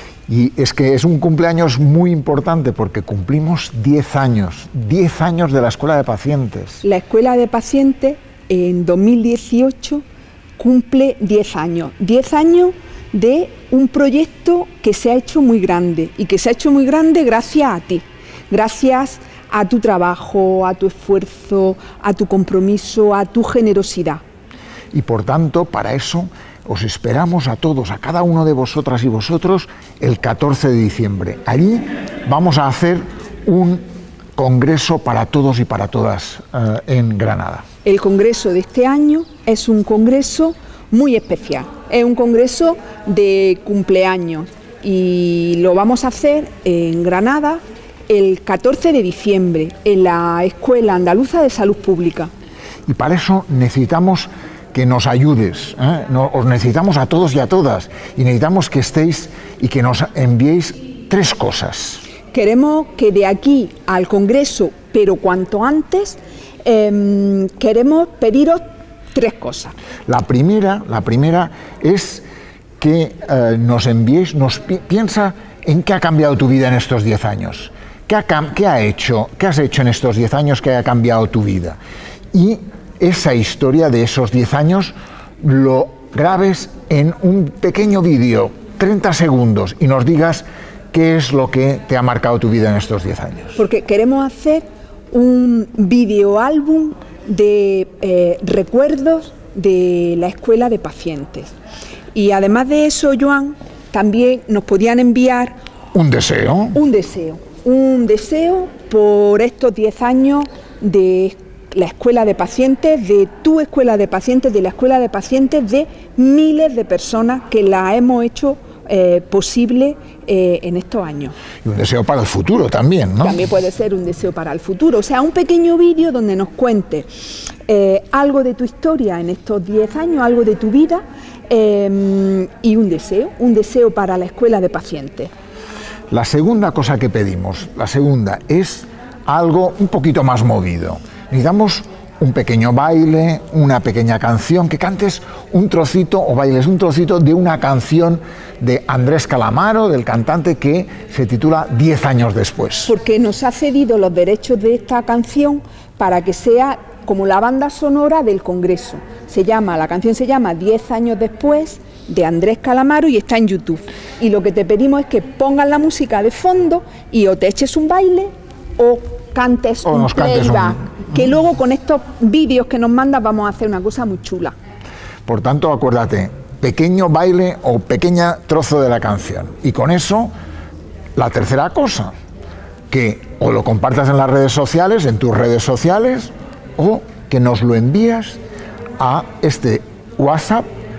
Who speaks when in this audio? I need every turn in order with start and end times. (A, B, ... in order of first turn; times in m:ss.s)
0:00.3-0:06.8 A
0:06.8-0:10.0 B
0:10.6-0:24.2 B
0:24.9-0:33.8 A
0:34.4-0:37.6 A
0:37.8-0:52.3 B
0:52.9-1:02.0 A
1:02.3-1:09.7 B
1:10.1-1:12.2 A
1:12.8-1:21.8 A
1:22.3-1:33.6 A
1:33.6-1:41.5 B
1:42.1-1:45.6 B
1:45.9-1:46.8 A
1:46.7-2:01.4 B
2:01.6-2:03.4 A
2:03.2-2:15.3 B
2:16.1-2:32.9 A
2:32.9-2:54.6 B
2:49.8-2:50.9 A
2:55.3-3:00.3 A
3:01.2-3:02.1 A
3:02.9-3:08.4 A
3:09.0-3:10.7 A